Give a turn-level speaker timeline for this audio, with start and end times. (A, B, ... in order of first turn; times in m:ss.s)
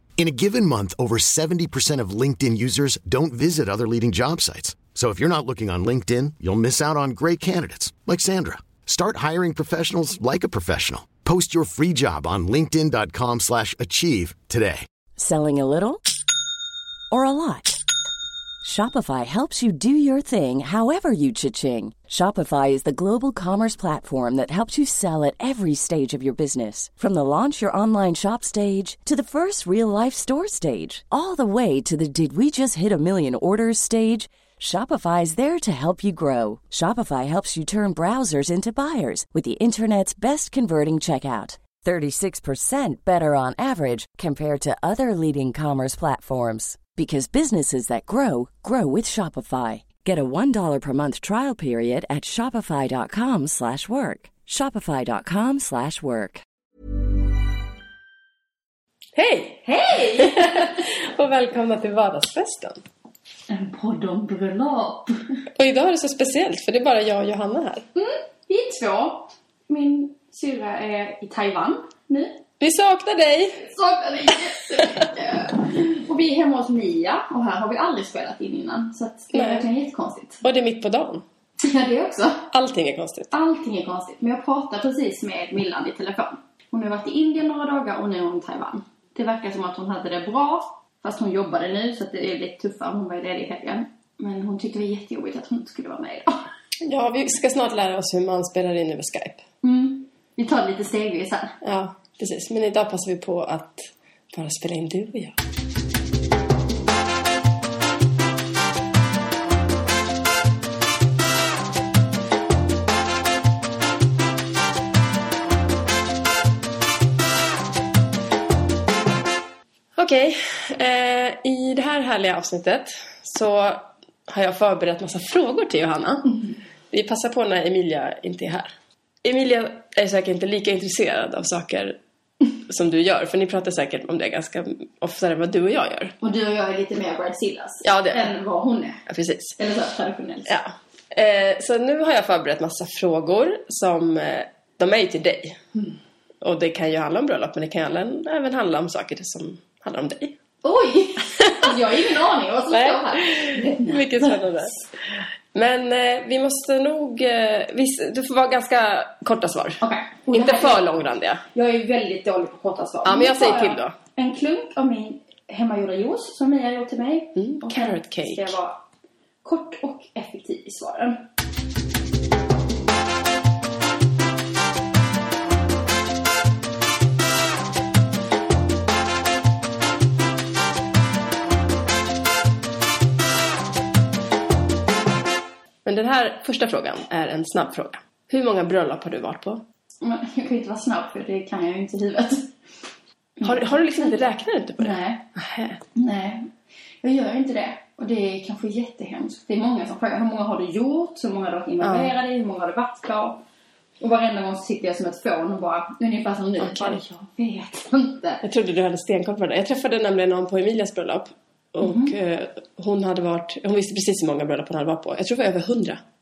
0:00.2-0:14.8 A
0:15.2-0:16.0 B
0:17.1-0:17.8 B
0:18.6-0:56.4 B
0:59.2-1:02.8 C
0:59.6-1:00.8 D
1:03.5-1:05.2 D
1:05.6-1:07.9 C
1:08.0-1:12.4 D
1:12.6-1:13.7 C
1:13.6-1:20.4 D
1:19.3-1:19.7 C
1:20.4-1:21.2 C
1:21.6-1:22.5 D
1:22.5-1:23.3 C
1:23.3-1:36.4 D
1:36.8-1:39.4 C
1:39.6-1:41.6 D
1:41.6-1:45.4 C
2:00.0-2:12.0 C
2:12.7-2:16.1 C
2:16.2-2:19.0 D
2:17.8-2:18.3 C
2:19.1-2:19.6 C
2:19.6-2:20.5 D
2:20.5-2:25.6 C
2:26.4-2:30.4 C
2:30.6-2:34.7 D
2:31.4-2:31.7 C
2:32.7-2:34.7 C
2:35.5-2:41.4 C
2:39.8-2:40.8 D
2:41.5-2:48.8 D
2:43.0-2:44.0 C
2:47.4-2:48.6 C
2:49.4-2:51.3 D
3:05.8-3:09.6 C
3:10.0-3:12.6 D
3:13.4-3:14.2 D
3:13.4-3:15.8 C
3:14.8-3:15.2 D
3:16.0-3:23.4 D
3:21.8-3:22.1 C
3:24.0-3:28.4 D
3:26.6-3:27.0 C
3:28.4-3:36.0 C
3:31.8-3:32.1 D